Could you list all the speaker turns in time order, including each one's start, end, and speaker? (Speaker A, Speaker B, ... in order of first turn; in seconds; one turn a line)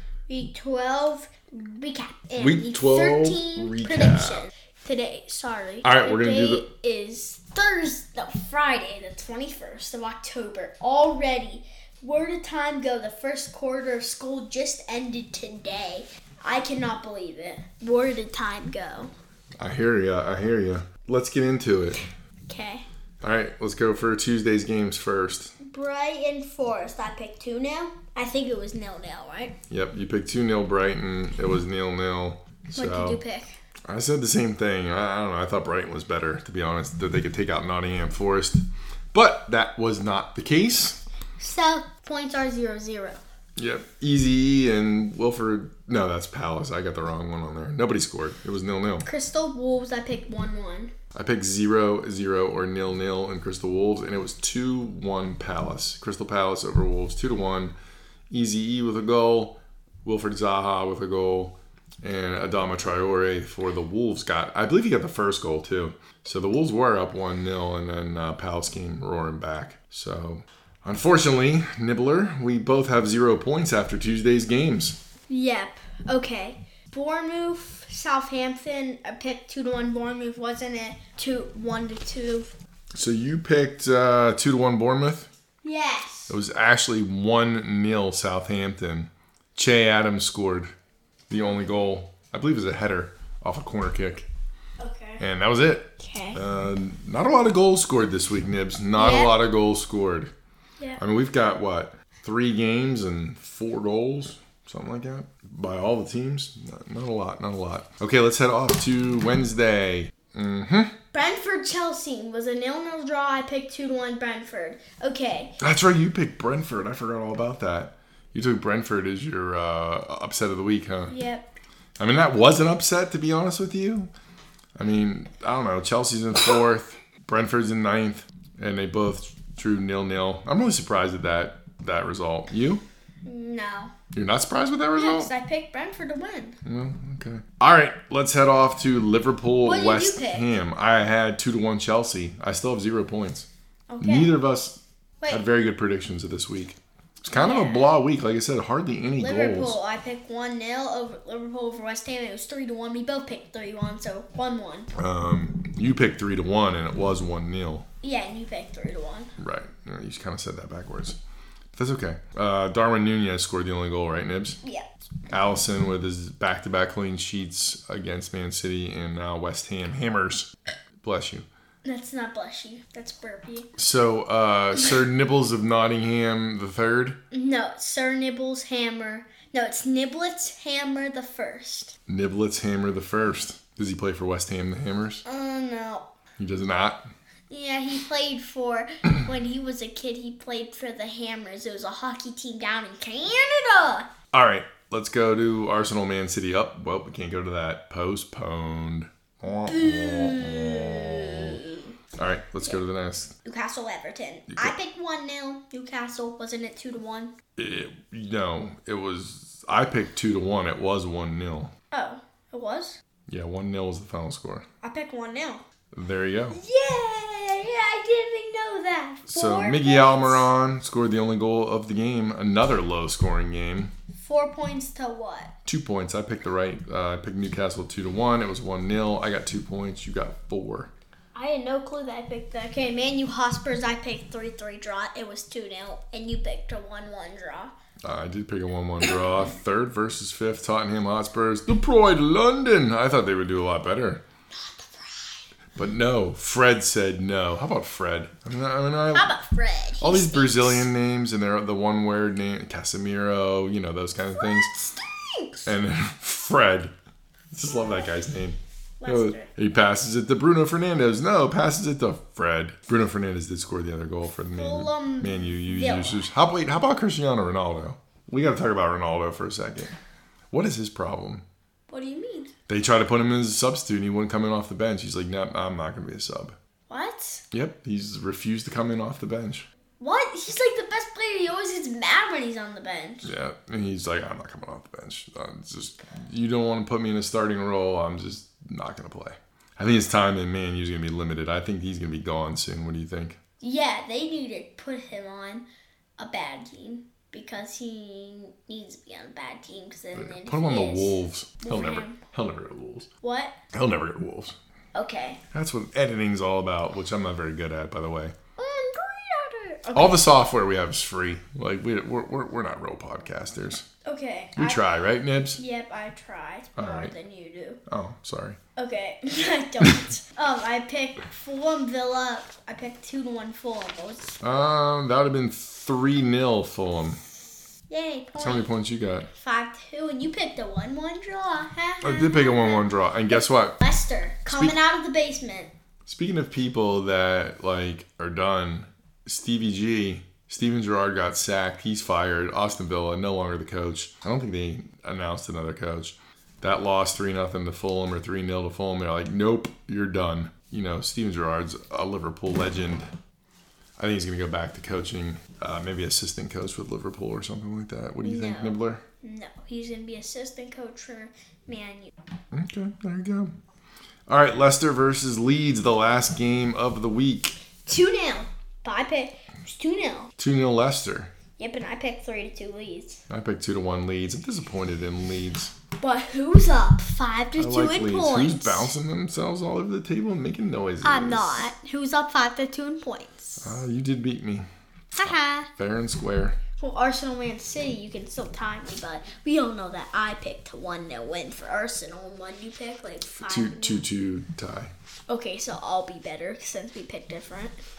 Speaker A: 0.3-19.1
Speaker B: 2.4-4.5
Speaker B: 5.8-6.7
Speaker B: 19.6-22.0
Speaker A: 22.5-22.8
Speaker B: 23.2-25.5
Speaker A: 25.6-29.6
Speaker B: 29.7-33.2
Speaker A: 32.7-33.5
Speaker B: 33.9-41.0
Speaker A: 41.4-43.2
Speaker B: 43.6-49.1
Speaker A: 49.0-50.9
Speaker B: 51.1-57.7
Speaker B: 58.3-75.0
Speaker A: 75.3-82.5
Speaker B: 83.0-85.3
Speaker A: 85.6-86.3
Speaker B: 86.3-90.7
Speaker B: 91.3-94.2
Speaker A: 94.8-95.2
Speaker B: 95.2-100.3
Speaker A: 96.0-96.4
Speaker A: 99.0-99.4
Speaker B: 101.0-110.9
Speaker A: 111.1-115.5
Speaker B: 115.6-121.1
Speaker A: 121.1-121.5
Speaker B: 122.0-124.1
Speaker B: 124.8-132.8
Speaker A: 133.2-133.9
Speaker B: 134.1-135.3
Speaker A: 134.9-136.6
Speaker B: 136.6-143.5
Speaker A: 139.6-140.5
Speaker A: 143.9-144.3
Speaker B: 144.0-149.8
Speaker A: 147.3-147.9
Speaker A: 149.2-154.9
Speaker B: 154.9-157.8
Speaker A: 158.0-159.3
Speaker B: 159.4-161.2
Speaker B: 161.8-164.6
Speaker B: 165.3-170.5
Speaker B: 171.0-171.4
Speaker A: 171.8-173.7
Speaker B: 173.8-177.2
Speaker A: 177.3-181.9
Speaker B: 182.1-185.2
Speaker A: 185.2-186.1
Speaker B: 186.4-187.1
Speaker A: 187.5-194.1
Speaker B: 194.3-201.6
Speaker A: 199.7-201.9
Speaker B: 202.2-203.3
Speaker A: 203.4-207.3
Speaker B: 207.6-211.7
Speaker A: 211.9-213.0
Speaker B: 213.3-214.7
Speaker A: 214.8-215.6
Speaker B: 215.9-216.6
Speaker A: 216.5-220.5
Speaker B: 219.3-223.9
Speaker A: 224.1-225.5
Speaker B: 225.6-230.9
Speaker A: 231.3-237.7
Speaker B: 238.0-244.2
Speaker A: 244.5-245.5
Speaker B: 245.8-249.3
Speaker A: 249.1-250.9
Speaker B: 250.0-254.7
Speaker A: 254.3-255.7
Speaker B: 255.6-256.9
Speaker B: 257.5-269.9
Speaker A: 259.0-259.5
Speaker A: 264.6-266.2
Speaker B: 270.5-271.4
Speaker A: 271.9-272.5
Speaker B: 272.7-276.6
Speaker A: 276.9-277.4
Speaker B: 277.5-279.7
Speaker A: 280.0-283.3
Speaker B: 283.2-293.4
Speaker A: 293.6-295.6
Speaker A: 296.2-302.2
Speaker B: 300.1-303.1
Speaker A: 303.2-303.6
Speaker B: 303.7-304.5
Speaker A: 304.9-305.4
Speaker B: 305.5-308.3
Speaker A: 308.6-310.3
Speaker B: 309.9-313.9
Speaker A: 314.0-314.8
Speaker B: 314.6-315.6
Speaker A: 315.6-317.8
Speaker B: 316.8-317.1
Speaker B: 317.9-318.6
Speaker A: 318.8-324.4
Speaker B: 324.4-327.2
Speaker A: 327.9-328.7
Speaker B: 328.4-329.3
Speaker A: 329.4-332.9
Speaker B: 332.0-333.8
Speaker A: 333.8-335.7
Speaker B: 334.5-334.7
Speaker B: 336.1-353.1
Speaker B: 354.0-359.0
Speaker A: 358.2-362.1
Speaker B: 362.5-363.5
Speaker B: 364.3-367.6
Speaker A: 367.9-370.3
Speaker B: 370.4-371.3
Speaker A: 371.6-373.2
Speaker B: 373.3-375.7
Speaker A: 376.0-378.9
Speaker B: 377.6-381.7
Speaker A: 381.0-383.8
Speaker B: 383.6-384.7
Speaker A: 385.1-385.7
Speaker B: 385.2-386.6
Speaker A: 386.8-394.1
Speaker B: 393.4-394.9
Speaker A: 395.3-397.8